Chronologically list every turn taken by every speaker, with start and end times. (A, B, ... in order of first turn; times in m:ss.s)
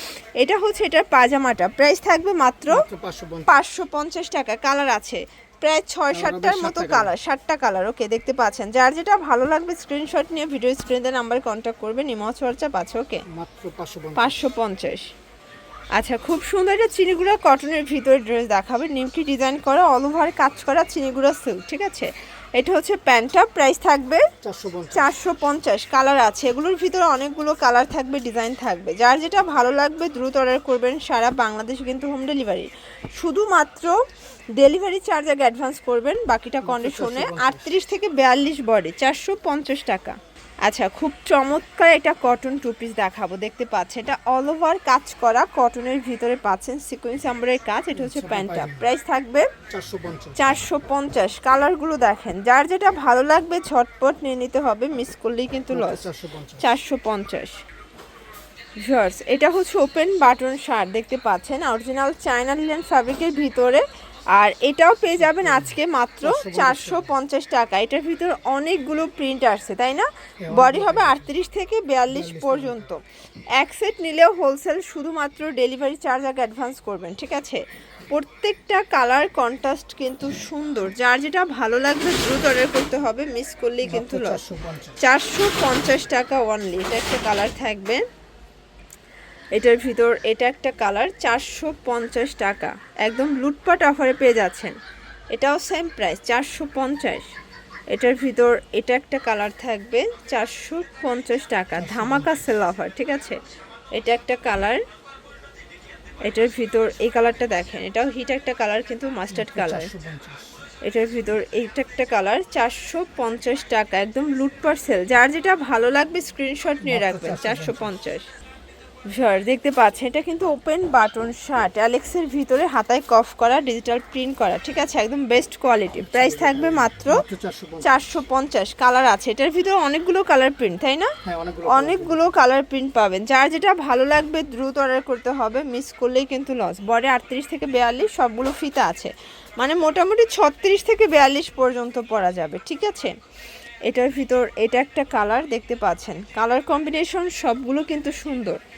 0:00.4-0:02.8 A
0:02.7-0:03.6 B
0:03.4-0:13.2 A
0:06.1-0:07.1 B
0:13.3-0:14.4 B
0:14.1-0:15.1 A
0:15.9-0:24.2 A
0:24.4-0:25.1 B
0:24.9-0:34.0 A
0:34.6-0:49.5 A
0:36.6-0:37.7 B
0:47.9-0:48.9 B
0:49.7-0:50.6 B
0:50.4-0:56.0 A
0:55.7-0:56.7 B
0:56.6-0:57.5 A
0:58.8-1:13.0 A
1:05.2-1:07.1 B
1:10.4-1:11.3 B
1:12.1-1:12.9 B
1:13.5-1:24.4 A
1:23.8-1:25.0 B
1:25.0-1:28.0 A
1:29.5-1:34.8 A
1:35.3-1:37.3 A
1:37.9-1:43.4 A
1:41.8-1:42.4 B
1:43.9-1:44.8 A
1:46.2-1:49.9 A
1:49.3-1:50.6 B
1:50.8-1:58.2 A
1:56.8-1:57.9 B
1:59.1-2:07.2 A
2:06.0-2:08.0 B
2:07.8-2:11.1 A
2:11.2-2:12.2 B
2:11.7-2:23.1 A
2:23.8-2:28.6 A